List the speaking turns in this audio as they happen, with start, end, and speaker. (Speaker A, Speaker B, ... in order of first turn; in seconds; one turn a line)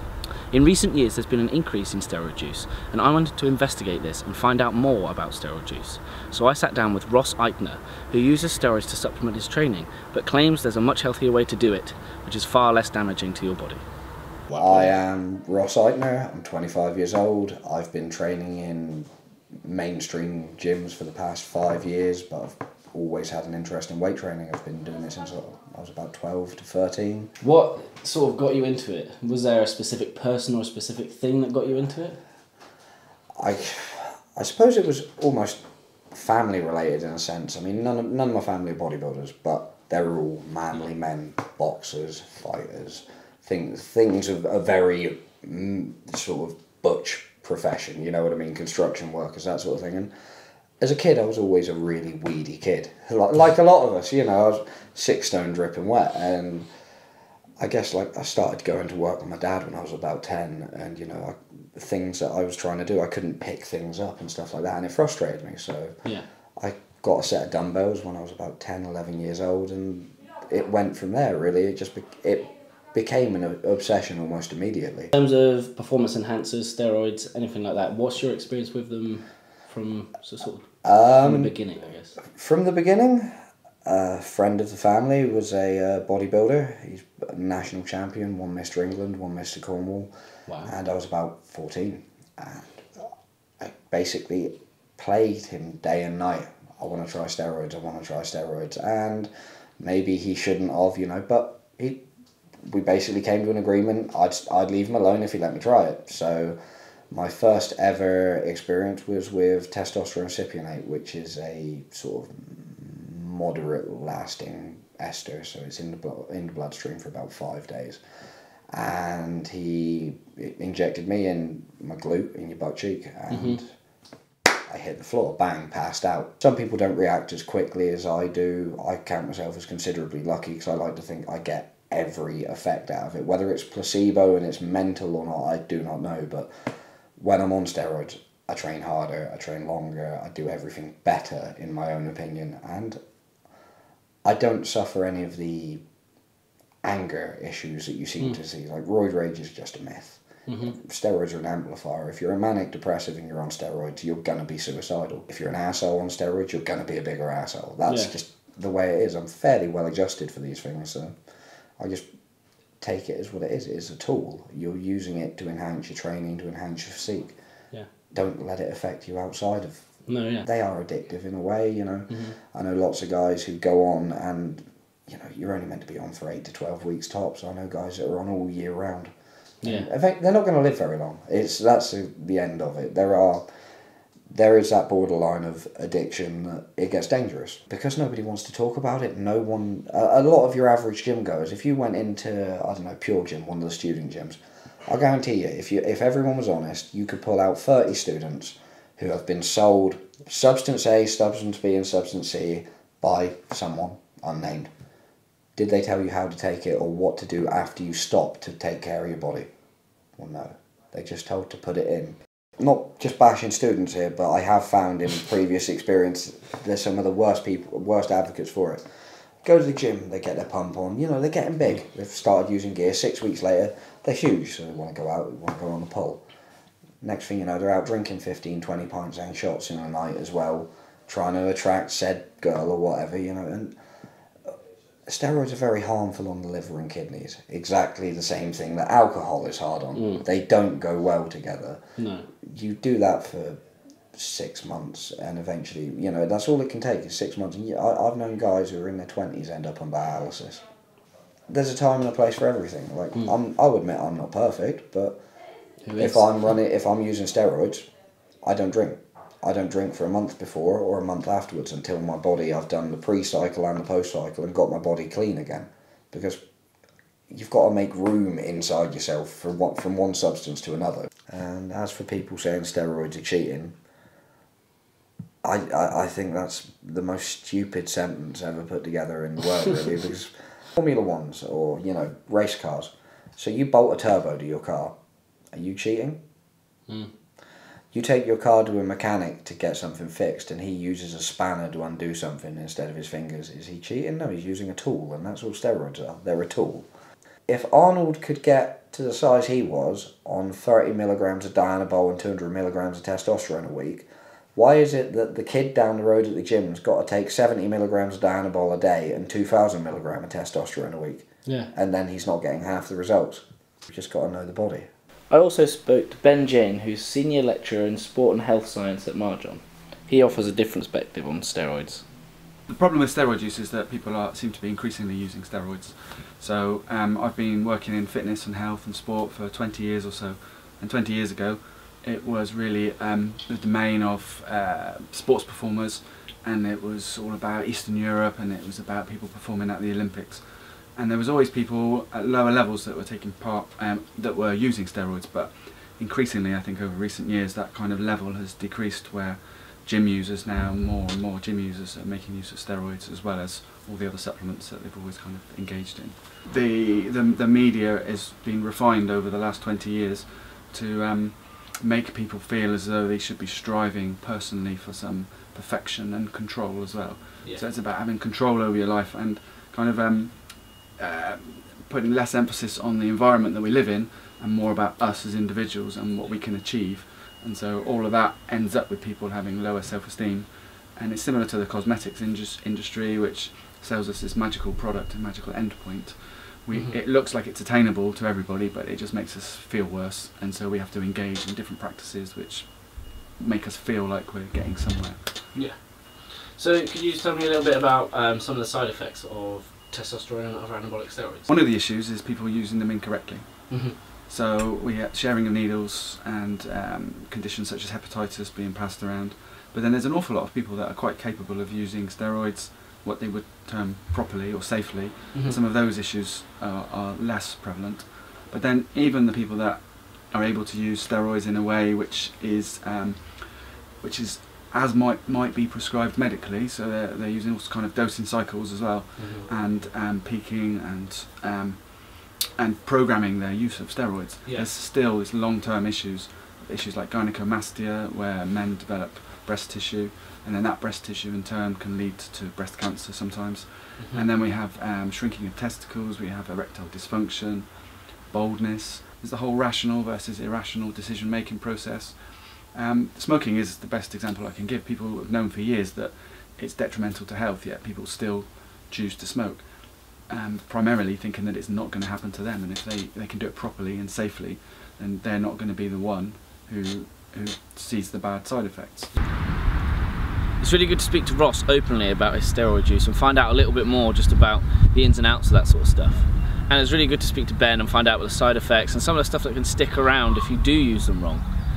Speaker A: 0.5-13.8
Speaker B: 14.5-19.1
Speaker B: 19.6-27.3
Speaker A: 27.4-32.2
Speaker B: 33.4-50.1
Speaker B: 50.8-56.7
Speaker B: 57.6-66.0
Speaker B: 66.6-75.1
Speaker A: 75.1-80.7
Speaker B: 80.8-81.6
Speaker A: 81.2-82.2
Speaker B: 82.2-83.3
Speaker B: 83.8-90.1
Speaker B: 90.6-102.1
Speaker B: 102.6-106.6
Speaker B: 107.1-118.0
Speaker B: 118.7-123.8
Speaker A: 123.3-123.6
Speaker B: 124.7-143.0
Speaker B: 144.2-145.8
Speaker B: 146.8-161.2
Speaker A: 150.5-150.8
Speaker A: 157.9-158.1
Speaker B: 161.8-162.1
Speaker B: 162.8-167.4
Speaker B: 168.1-179.1
Speaker A: 170.1-170.5
Speaker A: 179.6-179.9
Speaker B: 179.6-183.5
Speaker B: 184.3-204.7
Speaker B: 205.6-209.5
Speaker B: 210.2-218.8
Speaker B: 219.4-226.2
Speaker B: 227.0-233.8
Speaker B: 235.1-241.8
Speaker A: 242.0-242.2
Speaker B: 242.4-243.6
Speaker B: 244.1-250.7
Speaker B: 251.5-255.2
Speaker A: 255.9-256.2
Speaker B: 256.0-257.9
Speaker B: 258.4-266.4
Speaker B: 267.3-273.8
Speaker B: 275.4-285.0
Speaker B: 285.5-286.2
Speaker B: 287.9-296.9
Speaker B: 297.5-314.9
Speaker A: 315.3-322.1
Speaker C: 322.7-395.5
Speaker A: 386.7-387.0
Speaker A: 395.5-401.5
Speaker C: 401.5-469.1
Speaker A: 403.7-404.0
Speaker A: 429.2-429.5
Speaker A: 434.4-434.7
Speaker A: 444.0-444.3
Speaker A: 470.6-481.5